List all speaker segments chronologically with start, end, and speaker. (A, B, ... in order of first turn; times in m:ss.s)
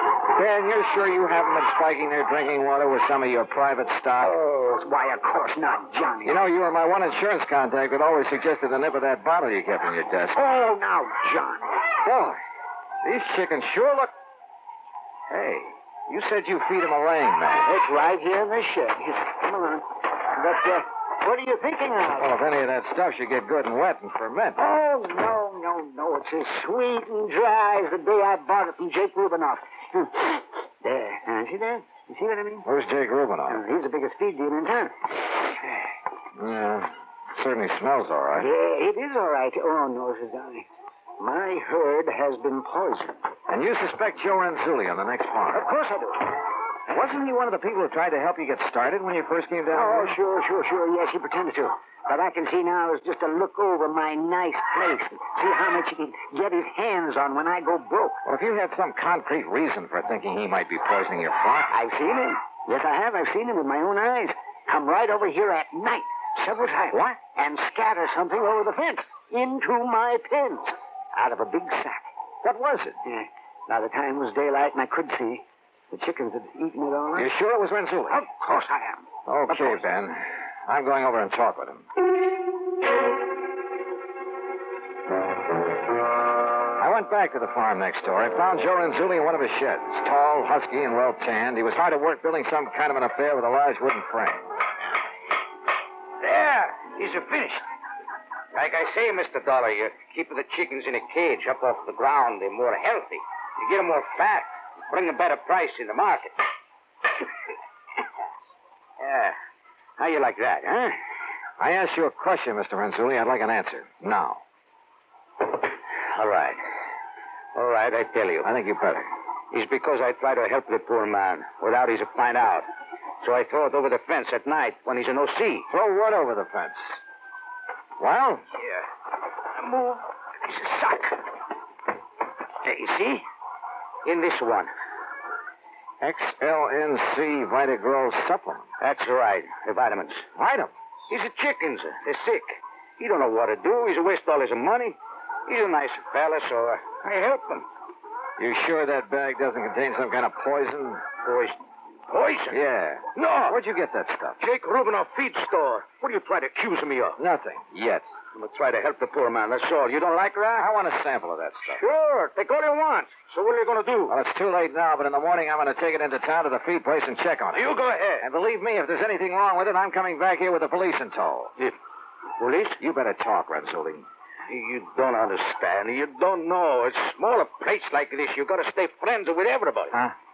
0:00.3-0:04.3 A
0:04.2-0:06.4 B
0:06.2-0:10.4 A
0:10.3-0:11.8 B
0:12.0-0:12.4 A
0:13.0-0:14.1 A
0:15.3-0:17.7 A
0:17.6-0:22.4 B
0:22.2-0:24.6 A
0:24.6-0:32.6 B
0:32.6-0:33.6 A
0:33.5-0:35.7 B
0:36.4-0:38.5 A
0:38.3-0:40.6 B
0:41.2-0:43.2 B
0:43.5-0:45.7 A
0:45.5-0:46.3 B
0:46.9-0:50.2 A
0:49.7-0:58.2 B
0:58.2-1:01.7 A
1:01.7-1:12.1 B
1:06.9-1:07.2 A
1:12.4-1:13.0 A
1:13.0-1:17.3 B
1:17.2-1:18.2 A
1:18.1-1:19.8 B
1:19.3-1:21.8 A
1:26.8-1:34.4 A
1:36.2-1:37.6 C
1:38.5-1:46.4 C
1:49.0-1:49.4 C
1:50.0-1:50.9 C
1:51.6-1:54.4 A
1:56.1-1:56.6 C
1:57.5-1:58.5 C
1:58.4-1:59.0 A
1:59.5-2:02.7 C
2:03.2-2:05.7 C
2:05.7-2:07.0 A
2:08.0-2:08.4 A
2:09.5-2:11.2 C
2:12.6-2:13.2 C
2:14.0-2:14.7 C
2:16.0-2:18.6 A
2:18.8-2:20.2 C
2:20.4-2:20.7 A
2:21.1-2:27.6 C
2:28.4-2:31.0 A
2:31.2-2:31.6 C
2:32.1-2:32.6 C
2:32.5-2:34.4 A
2:33.1-2:33.6 C
2:34.4-2:37.2 C
2:37.2-2:38.1 A
2:38.3-2:40.7 C
2:40.6-2:41.8 A
2:41.7-2:44.1 C
2:44.1-2:51.5 A
2:47.5-2:48.2 C
2:52.4-2:52.8 C
2:52.8-2:54.0 A
2:54.5-2:59.9 C